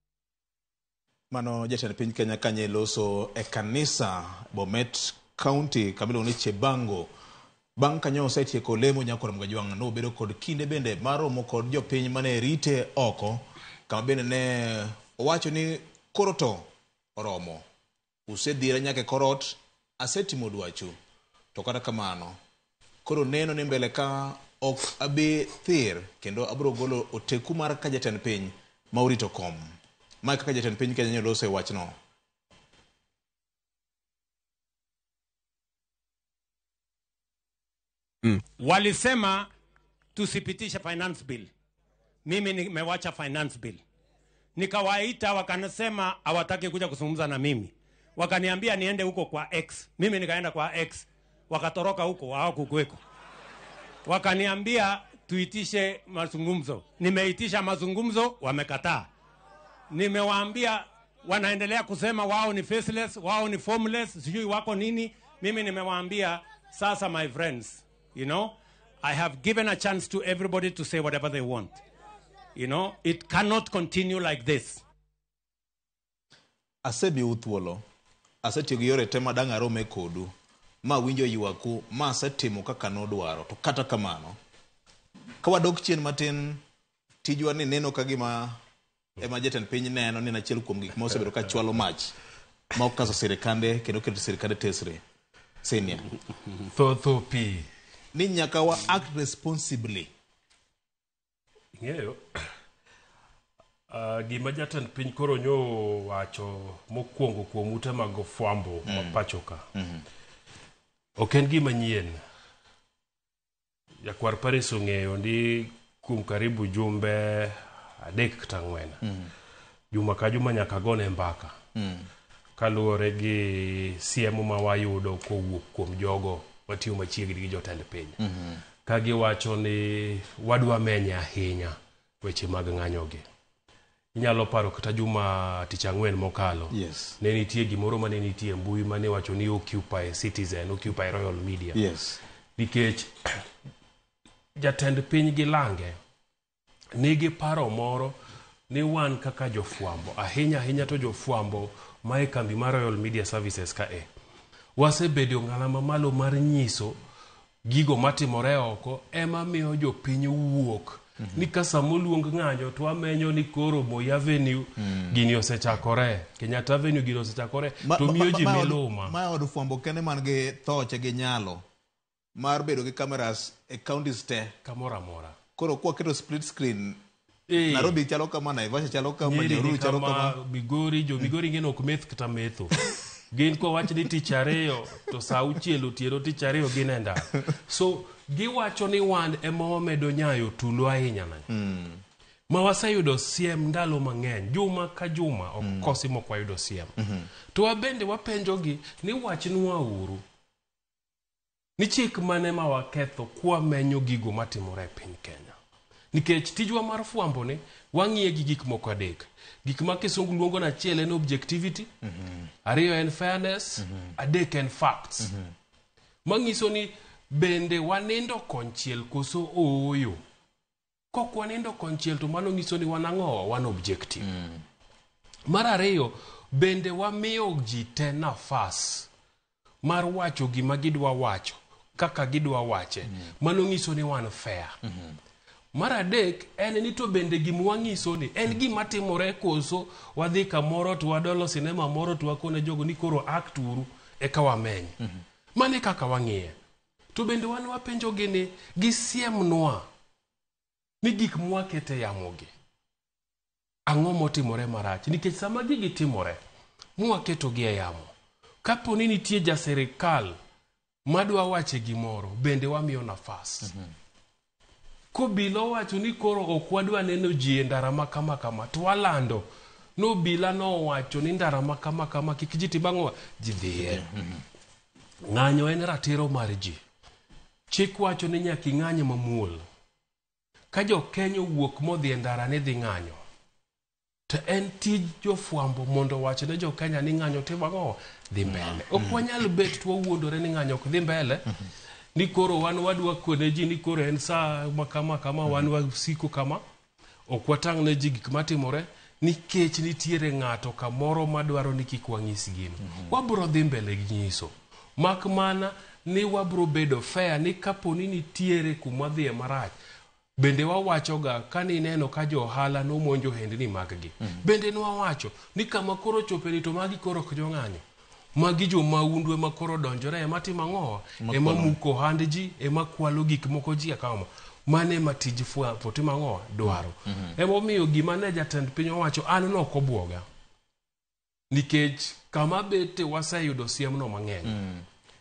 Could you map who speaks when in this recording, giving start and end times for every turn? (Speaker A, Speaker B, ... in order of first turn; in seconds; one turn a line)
Speaker A: 1.3-7.1
Speaker A: 7.8-17.6
Speaker A: 18.3-20.9
Speaker A: 21.5-22.4
Speaker A: 23.0-29.7
Speaker A: 30.2-31.9
Speaker B: 38.2-39.5
Speaker B: 40.1-41.5
Speaker B: 42.2-43.8
Speaker B: 44.5-53.0
Speaker B: 54.0-59.1
Speaker B: 59.9-71.8
Speaker B: 72.5-74.8
Speaker A: 76.8-77.8
Speaker A: 78.4-80.3
Speaker A: 80.8-84.3
Speaker A: 85.4-86.6
Speaker A: 87.2-88.6
Speaker A: 89.2-92.1
Speaker A: 92.7-95.0
Speaker A: 95.6-96.1
Speaker C: 96.7-97.7
Speaker A: 98.1-100.1
Speaker C: 101.8-102.5
Speaker C: 103.9-109.6
Speaker A: 108.8-109.2
Speaker A: 109.7-110.0
Speaker C: 111.2-112.2
Speaker C: 114.0-119.0
Speaker A: 119.0-119.3
Speaker C: 119.9-121.5
Speaker A: 121.7-122.1
Speaker C: 122.6-128.2
Speaker A: 128.2-128.6
Speaker C: 128.8-133.2
Speaker C: 134.1-141.8
Speaker A: 136.7-137.2
Speaker A: 141.7-142.2
Speaker C: 142.6-143.4
Speaker C: 144.6-146.0
Speaker C: 146.9-148.1
Speaker C: 148.7-154.1
Speaker C: 154.8-157.0
Speaker C: 157.6-169.1
Speaker A: 161.2-161.4
Speaker A: 164.8-165.2
Speaker A: 167.8-171.6
Speaker A: 172.3-174.5
Speaker C: 174.6-175.4
Speaker A: 175.6-177.0
Speaker C: 177.5-178.0
Speaker A: 177.6-180.3
Speaker C: 179.2-191.4
Speaker A: 191.5-192.0
Speaker C: 192.5-196.9
Speaker A: 195.6-195.9
Speaker A: 197.0-197.3
Speaker C: 197.5-200.2
Speaker C: 201.8-205.5
Speaker C: 206.1-211.9
Speaker A: 212.0-212.5
Speaker C: 212.6-215.3
Speaker A: 213.8-214.1
Speaker A: 215.2-215.5
Speaker C: 216.2-220.2
Speaker C: 221.1-224.3
Speaker A: 224.2-224.6
Speaker C: 225.5-229.1
Speaker C: 229.8-234.8
Speaker A: 234.8-235.2
Speaker C: 235.7-245.0
Speaker C: 245.5-246.5
Speaker C: 247.1-249.8
Speaker C: 251.0-252.5
Speaker C: 253.9-256.4
Speaker C: 257.0-258.1
Speaker C: 258.6-260.4
Speaker C: 261.1-263.7
Speaker A: 263.6-263.9
Speaker C: 265.1-274.0
Speaker A: 273.8-274.4
Speaker C: 275.3-276.8
Speaker C: 277.7-279.6
Speaker C: 280.7-283.2
Speaker C: 284.3-291.5
Speaker A: 288.5-289.2
Speaker C: 292.1-296.6
Speaker C: 297.3-309.8
Speaker A: 302.9-303.1
Speaker C: 310.4-317.8
Speaker C: 318.4-330.2
Speaker A: 321.2-321.8
Speaker A: 326.6-327.4
Speaker C: 331.5-334.6
Speaker A: 334.4-334.9